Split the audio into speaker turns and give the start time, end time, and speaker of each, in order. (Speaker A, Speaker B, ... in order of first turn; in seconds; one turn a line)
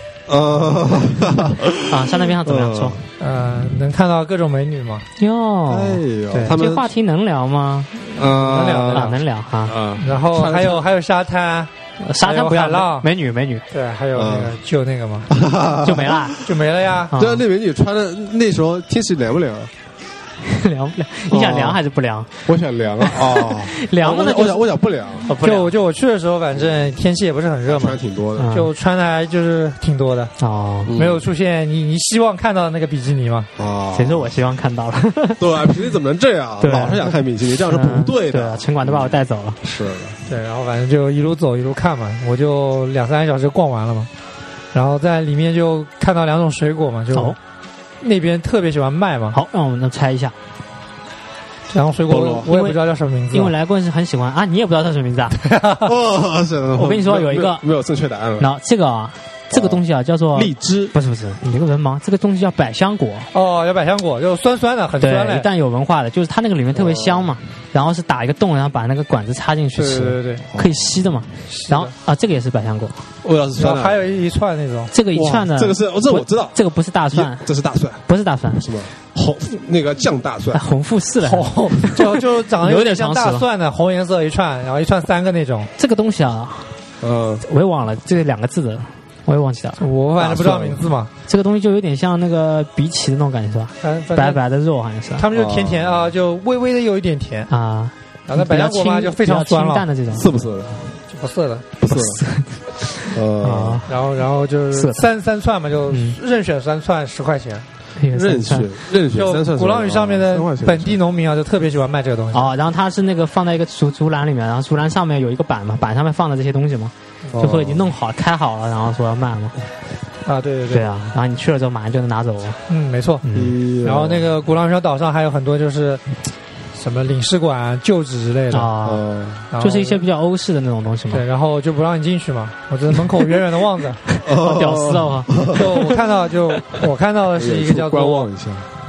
Speaker A: 0.3-3.0
Speaker B: 1.8-3.0
Speaker C: 3.2-5.1
Speaker B: 5.2-7.9
Speaker A: 5.7-6.9
Speaker C: 8.1-9.2
Speaker A: 8.1-10.8
Speaker B: 8.9-9.8
Speaker C: 10.0-13.1
Speaker B: 12.0-13.7
Speaker C: 13.7-15.3
Speaker A: 14.1-14.6
Speaker A: 15.3-16.5
Speaker B: 15.8-16.4
Speaker C: 16.4-17.1
Speaker B: 17.1-17.4
Speaker A: 17.1-19.7
Speaker B: 20.4-22.3
Speaker A: 21.3-21.8
Speaker A: 22.4-25.3
Speaker B: 23.0-24.7
Speaker B: 25.2-25.7
Speaker C: 25.4-28.0
Speaker A: 27.7-28.5
Speaker B: 28.4-28.7
Speaker C: 28.5-30.3
Speaker B: 30.4-30.9
Speaker A: 30.9-31.2
Speaker C: 30.9-33.5
Speaker A: 33.6-34.4
Speaker B: 33.9-35.4
Speaker A: 35.4-40.2
Speaker B: 36.6-39.6
Speaker C: 40.3-44.1
Speaker C: 44.7-47.4
Speaker C: 48.0-49.4
Speaker B: 49.3-50.3
Speaker C: 51.7-53.5
Speaker A: 52.1-52.5
Speaker B: 52.5-52.8
Speaker B: 53.3-55.4
Speaker C: 55.3-55.9
Speaker A: 55.8-58.5
Speaker B: 56.8-57.6
Speaker B: 58.4-63.3
Speaker A: 59.5-60.9
Speaker C: 63.3-65.5
Speaker B: 65.0-73.0
Speaker A: 66.7-67.3
Speaker C: 69.8-70.5
Speaker C: 71.5-71.9
Speaker A: 73.2-74.0
Speaker C: 73.6-74.9
Speaker B: 74.9-77.5
Speaker A: 75.1-76.6
Speaker A: 77.1-80.6
Speaker B: 78.1-78.6
Speaker B: 80.5-83.4
Speaker C: 81.2-85.7
Speaker B: 85.8-86.8
Speaker A: 87.0-87.4
Speaker B: 87.4-89.8
Speaker C: 89.8-91.1
Speaker A: 90.2-90.8
Speaker B: 91.2-95.2
Speaker C: 93.8-94.4
Speaker C: 95.2-97.5
Speaker A: 95.3-96.1
Speaker B: 97.5-100.3
Speaker C: 98.3-99.9
Speaker A: 100.1-101.0
Speaker C: 101.1-101.7
Speaker A: 101.8-102.2
Speaker B: 101.9-103.9
Speaker A: 103.1-103.8
Speaker C: 103.9-107.6
Speaker B: 104.7-105.1
Speaker B: 105.9-106.2
Speaker B: 108.0-108.7
Speaker A: 108.1-111.0
Speaker C: 109.1-112.5
Speaker B: 112.3-119.5
Speaker A: 117.3-117.9
Speaker C: 120.2-120.9
Speaker B: 120.7-122.6
Speaker C: 122.7-123.2
Speaker B: 123.2-123.6
Speaker A: 123.3-124.2
Speaker C: 123.8-126.0
Speaker C: 126.7-128.7
Speaker B: 128.5-129.0
Speaker A: 128.8-129.5
Speaker C: 129.5-130.0
Speaker B: 129.6-131.2
Speaker C: 131.1-134.0
Speaker B: 134.1-135.4
Speaker A: 134.2-135.7
Speaker C: 135.5-138.3
Speaker A: 137.4-138.7